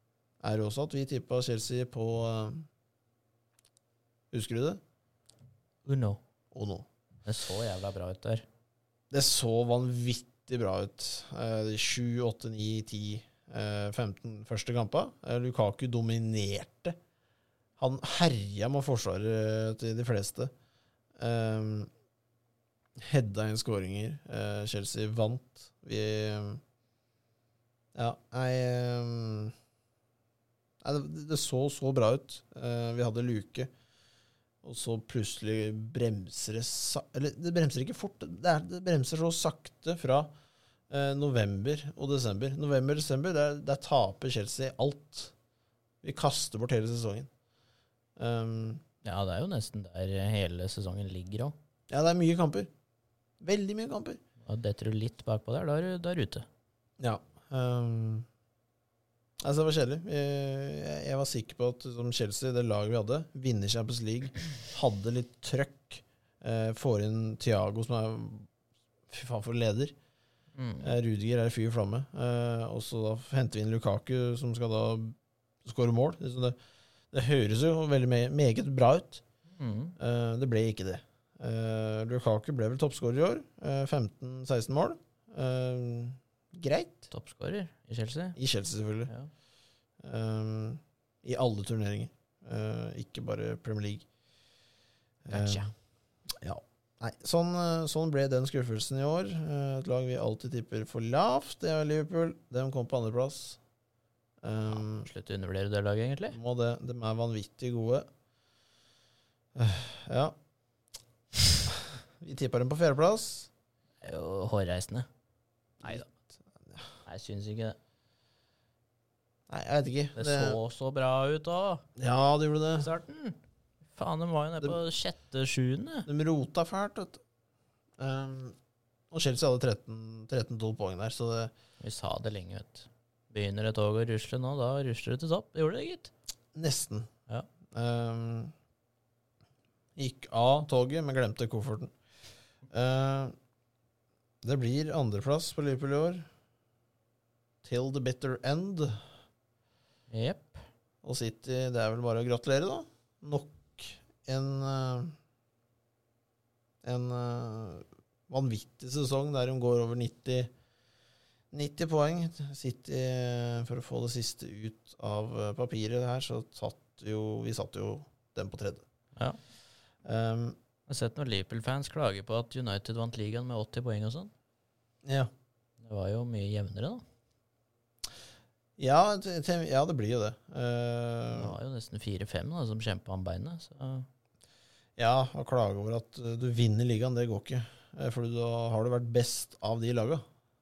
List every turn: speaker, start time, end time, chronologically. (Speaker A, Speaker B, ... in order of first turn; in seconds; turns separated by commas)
Speaker A: 0.4-2.7, Speaker A: 4.3-4.8, Speaker B: 5.8-6.2, Speaker A: 6.5-6.9, Speaker B: 7.2-8.4, Speaker A: 9.1-17.0, Speaker A: 17.8-20.5, Speaker A: 21.2-21.9, Speaker A: 23.0-26.6, Speaker A: 27.9-29.6, Speaker A: 30.8-33.7, Speaker A: 34.6-40.3, Speaker A: 40.9-45.3, Speaker A: 46.0-47.3, Speaker A: 48.2-48.8, Speaker B: 49.0-51.5, Speaker A: 51.9-52.7, Speaker A: 53.4-54.2, Speaker B: 54.5-56.5, Speaker A: 57.0-58.3, Speaker A: 59.4-68.5, Speaker A: 69.1-69.9, Speaker B: 70.5-71.0, Speaker A: 70.8-76.6, Speaker A: 77.1-79.2, Speaker B: 79.5-80.0, Speaker A: 80.0-87.1, Speaker B: 87.1-88.4, Speaker A: 88.4-89.1, Speaker A: 90.0-94.1, Speaker A: 95.3-95.7, Speaker B: 95.3-95.7, Speaker A: 96.3-103.6, Speaker A: 104.4-105.1, Speaker B: 104.7-106.4, Speaker A: 106.3-108.1, Speaker A: 109.5-110.3, Speaker A: 111.7-113.5, Speaker B: 114.0-115.1, Speaker A: 115.8-116.8, Speaker B: 115.8-116.1, Speaker B: 117.0-117.8, Speaker A: 119.5-120.6, Speaker B: 120.2-121.9, Speaker A: 122.0-122.9, Speaker B: 122.8-123.4, Speaker B: 123.9-126.1, Speaker A: 126.1-127.2, Speaker A: 128.0-128.6, Speaker A: 129.1-131.5, Speaker B: 131.8-136.1, Speaker A: 136.5-137.1, Speaker A: 137.7-138.5, Speaker A: 140.0-141.9, Speaker A: 142.7-143.3, Speaker A: 144.4-146.3, Speaker A: 147.6-149.1, Speaker B: 150.1-150.6, Speaker A: 151.0-155.2, Speaker A: 156.8-160.5, Speaker A: 161.5-168.8, Speaker A: 170.0-170.6, Speaker B: 170.9-174.3, Speaker A: 175.0-175.3, Speaker B: 175.8-177.0, Speaker A: 178.8-181.6, Speaker B: 181.3-184.1, Speaker A: 185.0-190.2